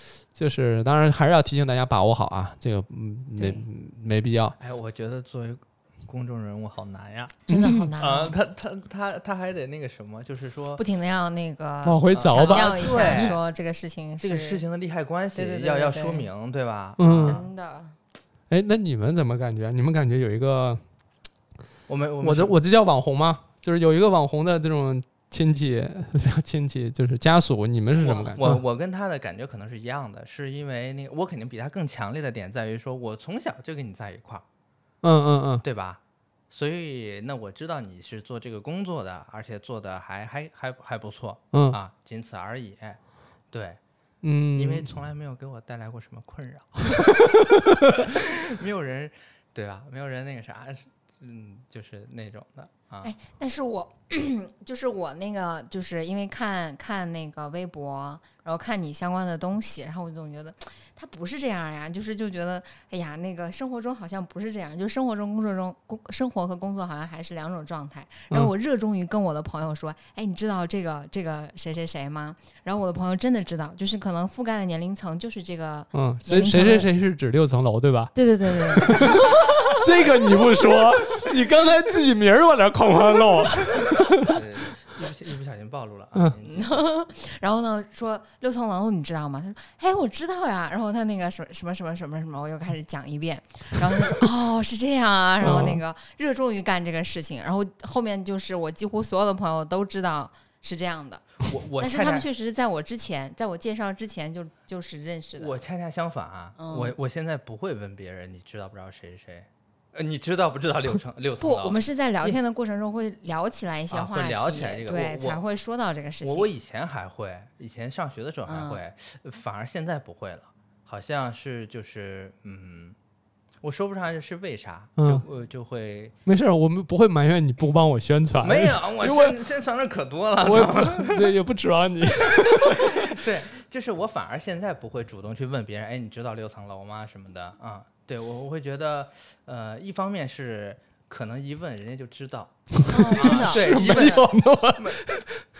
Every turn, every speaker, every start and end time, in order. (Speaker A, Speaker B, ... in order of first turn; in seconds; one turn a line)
Speaker A: 0.3-4.5
Speaker B: 3.4-3.6
Speaker C: 4.6-10.8
Speaker B: 7.5-8.3
Speaker A: 7.5-7.8
Speaker B: 10.8-14.6
Speaker A: 11.8-13.4
Speaker C: 12.1-13.4
Speaker C: 14.2-17.4
Speaker B: 15.3-16.3
Speaker A: 17.0-17.4
Speaker B: 17.1-18.0
Speaker A: 18.5-20.8
Speaker C: 21.9-22.6
Speaker A: 22.2-28.6
Speaker C: 28.0-34.4
Speaker A: 35.0-35.6
Speaker C: 35.6-43.0
Speaker A: 41.5-41.8
Speaker C: 43.5-43.8
Speaker A: 44.2-44.9
Speaker C: 44.5-53.1
Speaker B: 53.0-76.9
Speaker A: 75.9-84.4
Speaker B: 78.1-79.6
Speaker C: 84.2-86.8
Speaker B: 86.4-105.6
Speaker A: 95.4-95.8
Speaker C: 101.4-102.2
Speaker C: 105.4-112.4
Speaker B: 106.6-106.9
Speaker B: 111.4-116.5
Speaker C: 113.9-115.4
Speaker C: 116.2-123.0
Speaker B: 118.5-118.8
Speaker C: 123.6-126.1
Speaker A: 125.0-125.2
Speaker A: 126.2-129.4
Speaker C: 128.4-131.3
Speaker A: 130.4-133.2
Speaker C: 132.7-145.1
Speaker B: 142.9-144.2
Speaker A: 143.0-145.4